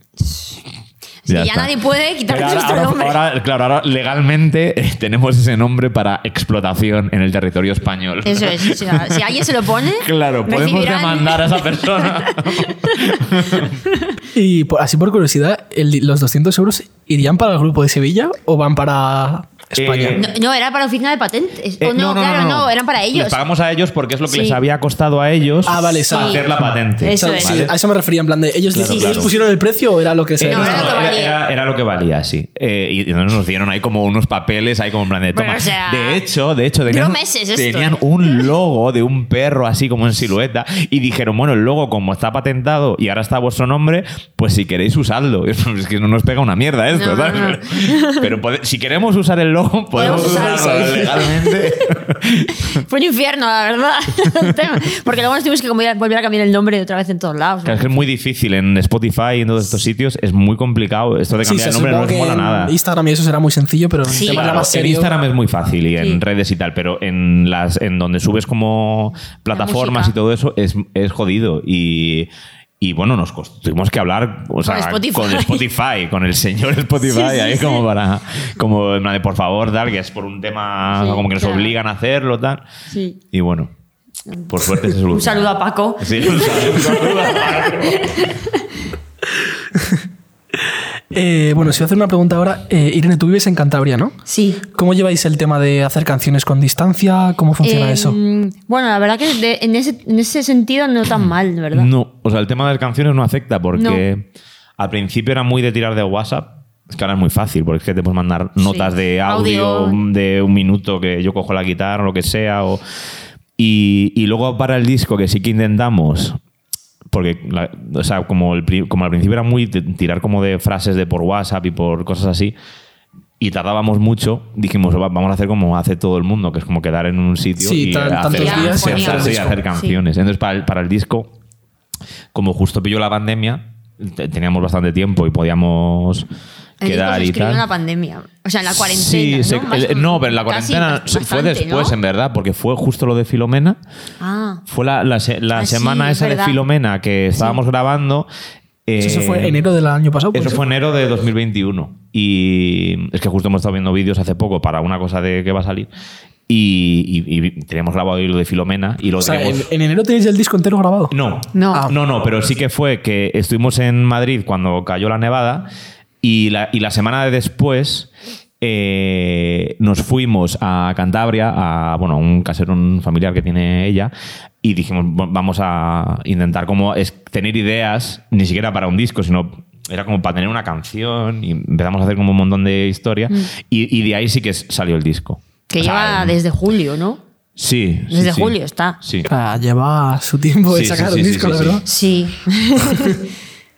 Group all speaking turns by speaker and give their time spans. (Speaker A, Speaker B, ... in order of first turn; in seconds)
Speaker A: 0.2-0.6, 1.2-3.2, 8.2-14.1, 20.1-23.4, 24.3-24.6, 26.1-26.5, 27.0-27.7, 28.9-29.3, 30.5-31.4, 35.3-36.2, 36.9-38.5, 46.9-48.3, 49.9-51.9, 52.6-58.0, 64.1-64.6, 69.5-70.1, 74.6-75.7, 77.0-77.8, 80.9-81.8, 82.9-83.2, 84.3-88.7, 94.2-94.6, 97.6-101.9, 103.8-104.0, 108.6-110.0, 128.3-130.0, 136.8-142.0, 144.2-144.6, 145.5-146.6, 161.5-161.9, 185.7-187.2, 188.1-189.0, 191.8-193.2
Speaker B: 1.3-1.7, 2.3-13.8, 19.8-20.3, 21.8-27.7, 28.7-29.3, 30.4-52.8, 57.6-62.7, 64.1-82.6, 83.3-83.7, 84.5-85.5, 86.0-88.3, 101.7-104.3, 104.8-112.8, 113.6-116.4, 117.1-122.5, 123.4-131.3, 132.3-136.3, 136.8-137.6, 138.7-143.8, 144.7-148.3, 148.9-149.6, 150.3-155.9, 156.5-159.7, 161.1-165.7, 166.2-168.1, 168.6-186.4, 187.6-189.3, 190.7-191.8
Speaker C: 14.3-20.3, 25.6-30.9, 61.4-65.1, 89.8-90.0, 91.1-98.2, 127.6-129.6, 149.0-150.6, 159.2-161.1, 189.2-191.8